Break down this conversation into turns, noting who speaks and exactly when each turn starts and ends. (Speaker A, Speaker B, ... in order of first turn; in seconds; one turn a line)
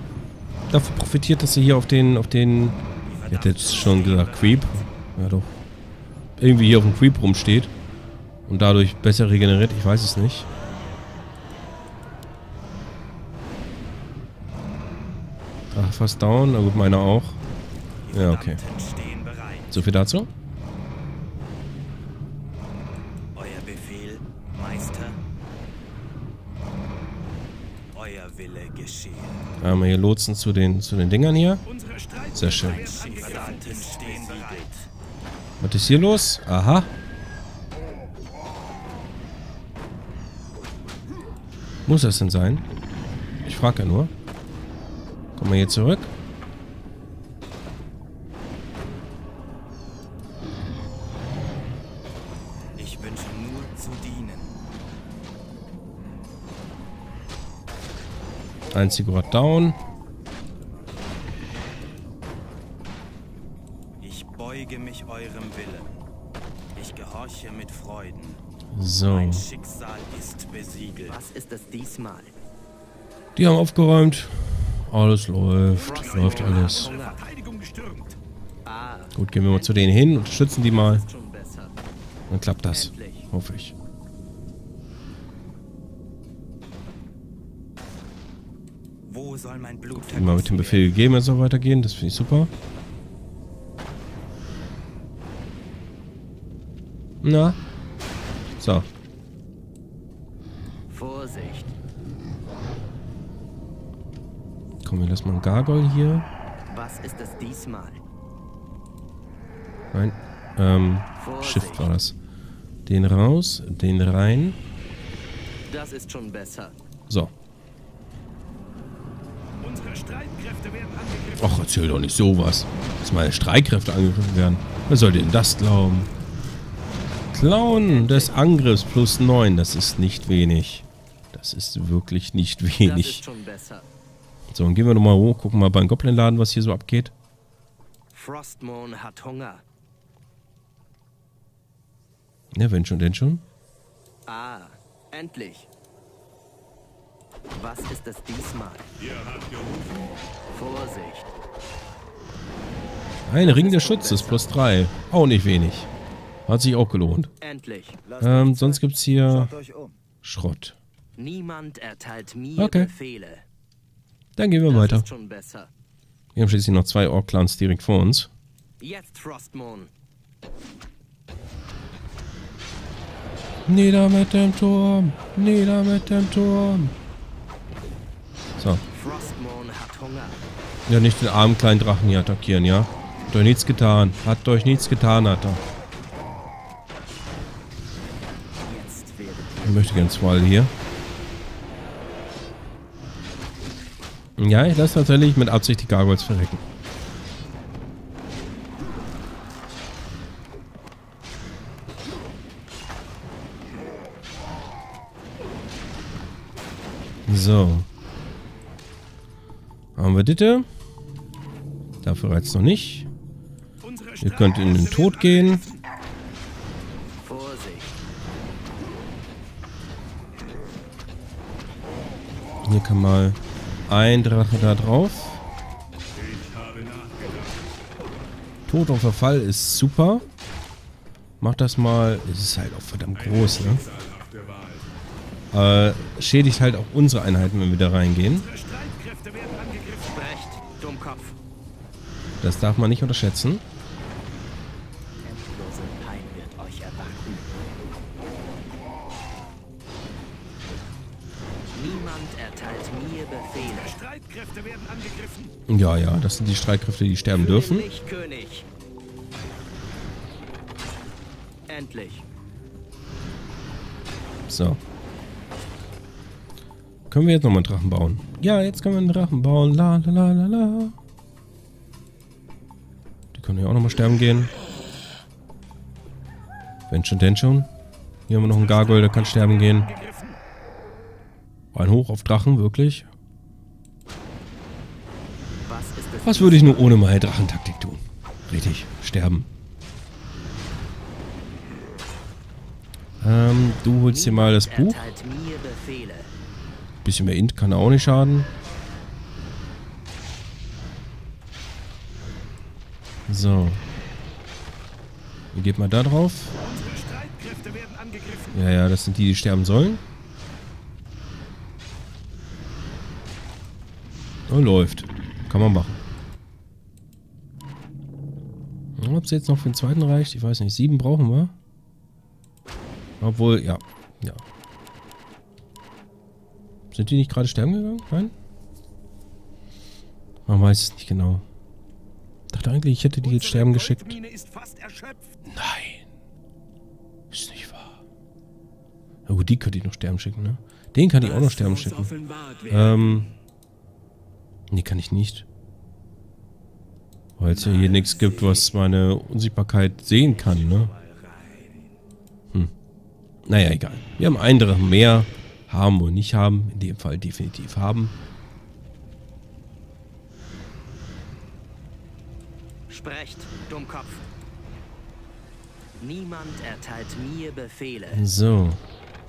Speaker A: 0.7-2.8
Speaker B: 3.0-4.9
Speaker A: 3.3-5.5
Speaker A: 6.4-7.7
Speaker A: 8.5-10.5
Speaker A: 15.7-17.4
Speaker B: 18.1-19.8
Speaker A: 18.1-18.6
Speaker A: 19.7-20.3
Speaker B: 23.3-25.2
Speaker B: 27.9-29.4
Speaker A: 29.6-31.6
Speaker C: 31.7-34.5
Speaker A: 32.3-33.0
Speaker B: 32.5-34.9
Speaker D: 33.2-33.8
Speaker A: 35.6-36.9
Speaker A: 41.9-42.6
Speaker A: 43.4-44.1
Speaker A: 45.4-46.1
Speaker B: 52.8-54.6
Speaker A: 58.7-59.8
Speaker B: 64.0-66.0
Speaker B: 66.7-68.4
Speaker A: 68.7-69.5
Speaker B: 69.0-71.2
Speaker D: 71.1-72.3
Speaker A: 73.3-76.9
Speaker D: 75.7-77.3
Speaker C: 75.8-78.2
Speaker D: 78.6-81.7
Speaker A: 79.1-81.0
Speaker A: 82.3-83.7
Speaker D: 82.7-83.3
Speaker B: 89.0-91.0
Speaker A: 90.0-92.5
Speaker A: 97.2-97.6
Speaker A: 98.6-98.9
Speaker D: 100.9-101.7
Speaker A: 104.8-106.3
Speaker D: 106.7-108.0
Speaker A: 109.9-112.2
Speaker D: 111.2-111.9
Speaker A: 112.8-114.6
Speaker D: 115.7-116.8
Speaker C: 119.6-121.4
Speaker A: 121.4-126.1
Speaker A: 127.3-133.2
Speaker D: 127.7-128.5
Speaker D: 132.8-133.9
Speaker A: 134.5-137.1
Speaker D: 138.1-139.6
Speaker A: 142.5-143.4
Speaker D: 144.2-145.7
Speaker D: 147.5-148.9
Speaker C: 149.0-150.1
Speaker D: 150.5-151.3
Speaker A: 153.3-155.9
Speaker D: 153.4-154.5
Speaker A: 156.5-157.3
Speaker D: 157.4-158.7
Speaker A: 158.2-159.6
Speaker B: 159.3-159.9
Speaker A: 160.2-160.8
Speaker D: 161.2-163.4
Speaker A: 162.6-162.9
Speaker A: 164.4-165.1
Speaker D: 164.7-165.7
Speaker A: 166.3-168.3
Speaker D: 168.8-169.9
Speaker A: 173.7-176.9
Speaker A: 178.6-178.8
Speaker D: 178.9-180.4
Speaker A: 180.9-185.6
Speaker D: 188.7-190.4
Speaker A: 189.6-190.7
Speaker A: 194.4-196.6
Speaker A: 207.3-207.9
Speaker A: 210.0-210.7
Speaker A: 212.0-213.1
Speaker C: 213.8-215.8
Speaker A: 214.2-215.7
Speaker D: 217.2-217.9
Speaker A: 222.6-225.4
Speaker C: 226.2-227.5
Speaker A: 228.7-230.2
Speaker A: 231.4-233.8
Speaker C: 233.2-234.9
Speaker A: 235.5-238.5
Speaker C: 238.4-240.0
Speaker D: 239.9-241.4
Speaker A: 242.4-243.6
Speaker D: 245.2-247.4
Speaker D: 251.7-254.0
Speaker C: 253.8-255.5
Speaker A: 255.7-257.9
Speaker D: 257.3-258.7
Speaker D: 261.7-262.2
Speaker A: 264.5-264.8
Speaker A: 267.1-270.9
Speaker A: 273.3-274.5
Speaker A: 276.9-277.7
Speaker A: 278.3-279.9
Speaker C: 278.5-280.4
Speaker A: 281.7-283.1
Speaker D: 285.6-287.0
Speaker A: 286.2-289.5
Speaker A: 293.2-295.1
Speaker D: 294.1-296.3
Speaker A: 297.0-298.5
Speaker A: 303.3-303.8
Speaker A: 305.5-306.6
Speaker C: 306.6-308.5
Speaker A: 308.5-310.0
Speaker A: 314.5-316.0
Speaker A: 319.0-321.5
Speaker A: 323.2-324.4
Speaker A: 326.9-328.3
Speaker A: 330.5-331.4
Speaker A: 332.5-334.2
Speaker C: 333.2-335.4
Speaker A: 335.4-336.1
Speaker A: 337.3-338.0
Speaker A: 339.3-343.3
Speaker C: 342.3-342.7
Speaker A: 344.7-345.4
Speaker A: 347.4-350.9
Speaker D: 347.6-348.6
Speaker B: 350.2-351.7
Speaker A: 353.4-358.1
Speaker D: 362.9-364.2
Speaker D: 366.0-368.2
Speaker A: 368.1-368.8